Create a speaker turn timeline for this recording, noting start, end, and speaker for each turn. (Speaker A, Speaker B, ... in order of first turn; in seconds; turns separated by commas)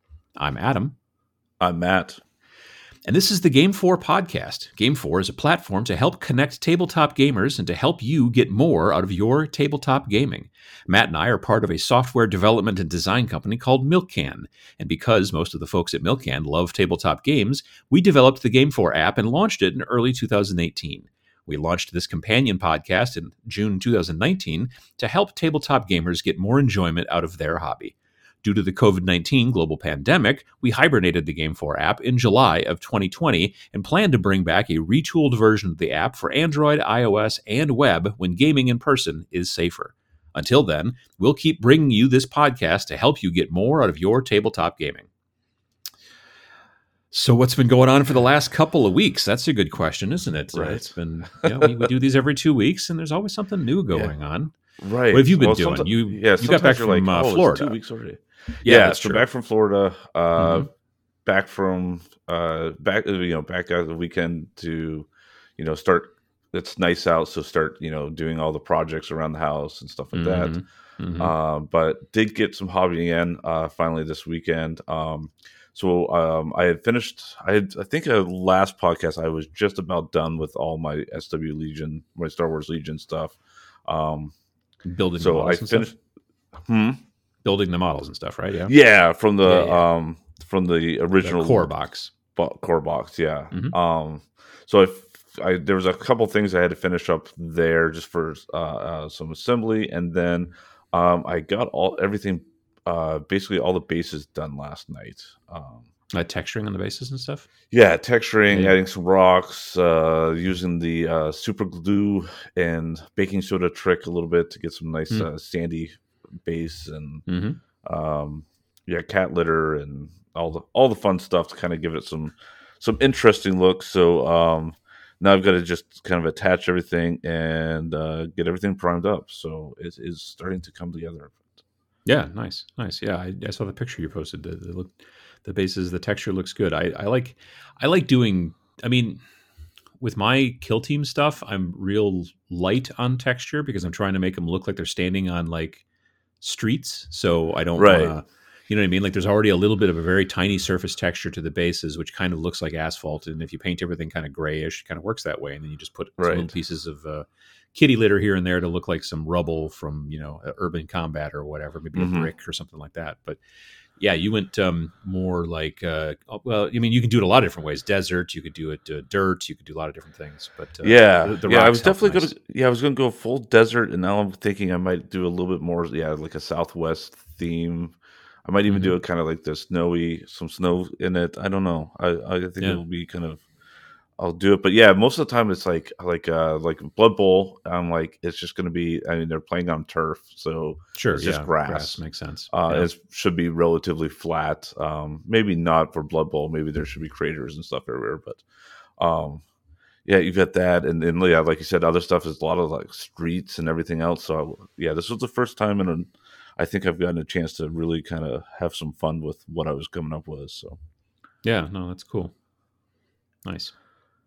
Speaker A: 0.4-0.9, Speaker B: 1.6-2.2, Speaker A: 3.1-45.1, Speaker A: 47.1-54.5, Speaker B: 50.5-50.9, Speaker B: 51.4-51.8, Speaker B: 54.8-60.7, Speaker A: 55.1-57.8, Speaker A: 58.6-59.2, Speaker A: 60.4-60.7, Speaker B: 61.2-65.1, Speaker B: 65.6-70.6, Speaker A: 70.1-71.3, Speaker B: 71.2-84.3, Speaker A: 84.8-85.9, Speaker B: 85.2-86.0, Speaker B: 86.6-87.0, Speaker A: 87.4-88.7, Speaker B: 88.7-91.7, Speaker A: 89.4-89.8, Speaker A: 91.2-92.1, Speaker B: 92.3-105.9, Speaker A: 93.5-93.8, Speaker A: 106.1-107.5, Speaker B: 107.7-117.2, Speaker A: 108.5-108.8, Speaker A: 117.3-117.6, Speaker B: 117.8-131.4, Speaker A: 132.0-139.2, Speaker A: 140.0-145.8, Speaker A: 146.4-163.4, Speaker B: 147.8-148.2, Speaker B: 156.2-156.5, Speaker B: 161.9-162.3, Speaker A: 164.0-172.3, Speaker B: 170.8-183.4, Speaker A: 178.7-178.9, Speaker B: 184.2-192.0, Speaker A: 190.9-192.9, Speaker B: 192.5-198.4, Speaker B: 199.0-199.4, Speaker B: 200.0-210.8, Speaker A: 211.4-212.3, Speaker A: 213.4-213.7